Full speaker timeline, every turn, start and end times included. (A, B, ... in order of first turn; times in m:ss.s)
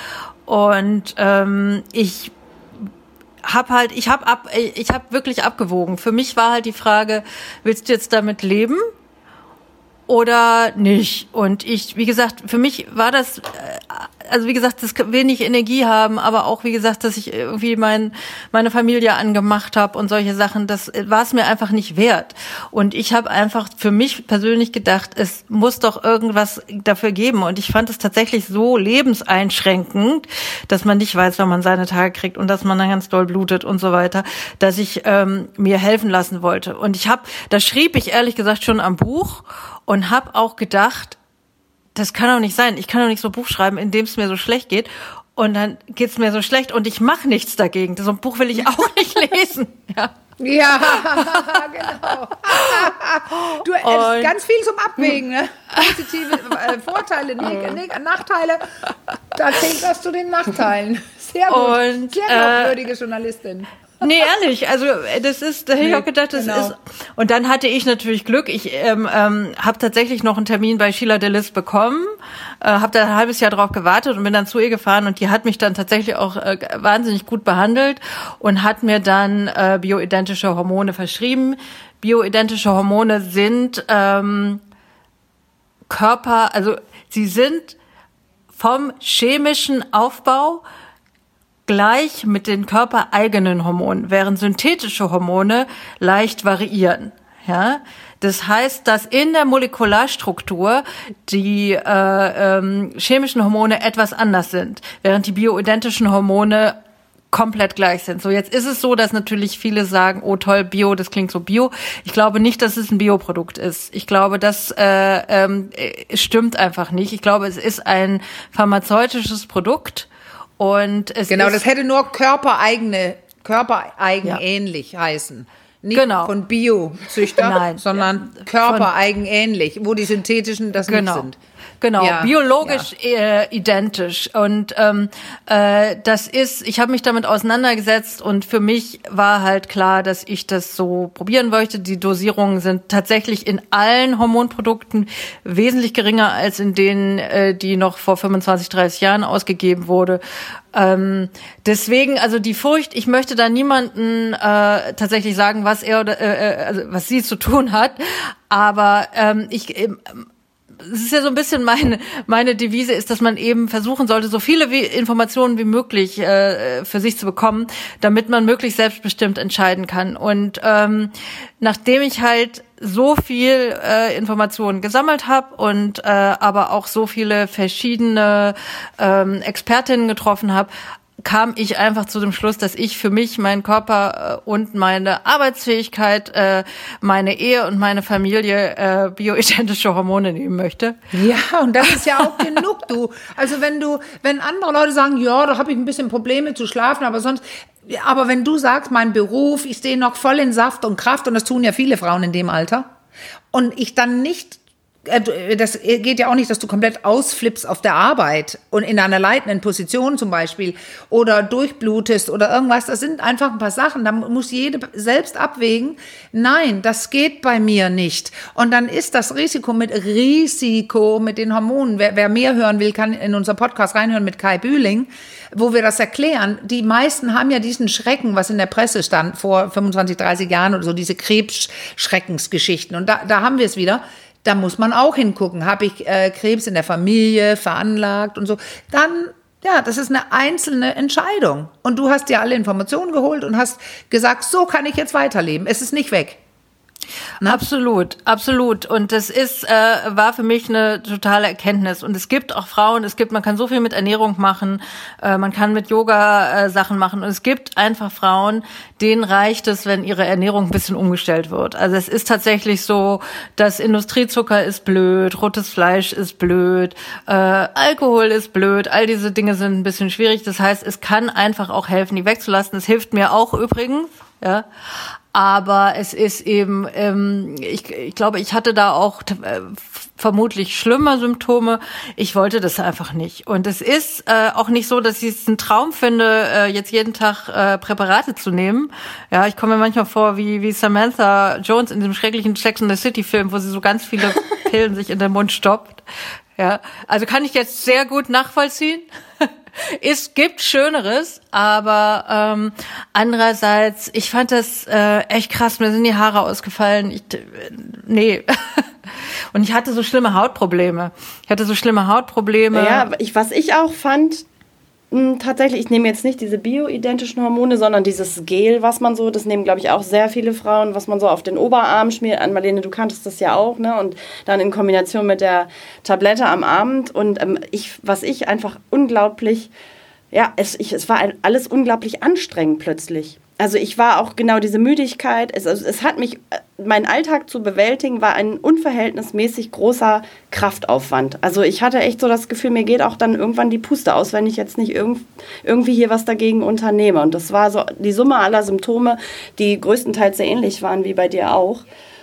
0:00.4-0:02.3 A
0:03.4-0:08.8 A
0:10.1-0:41.2 A
0:41.9-0:50.1 A
0:50.4-0:58.6 B
0:50.6-0:54.3 A
0:59.3-1:03.7 B
1:01.5-1:02.8 A
1:04.0-1:24.6 A
1:05.8-1:06.7 B
1:25.9-1:27.8 A
1:28.5-1:30.6 A
1:31.7-1:46.8 A
1:47.3-2:01.6 A
2:01.3-2:11.4 B
2:05.9-2:06.3 A
2:07.3-2:08.9 A
2:10.8-2:11.3 A
2:11.8-2:30.2 A
2:12.0-2:12.8 B
2:30.7-2:40.2 A
2:40.8-3:11.0 A
3:11.1-3:22.8 B
3:11.9-3:12.4 A
3:23.5-4:06.4 B
4:07.4-4:34.6 A
4:35.3-4:56.0 A
4:56.6-5:08.9 A
5:09.5-5:13.1 A
5:12.7-5:14.4 C
5:15.1-5:29.7 C
5:30.3-5:51.8 C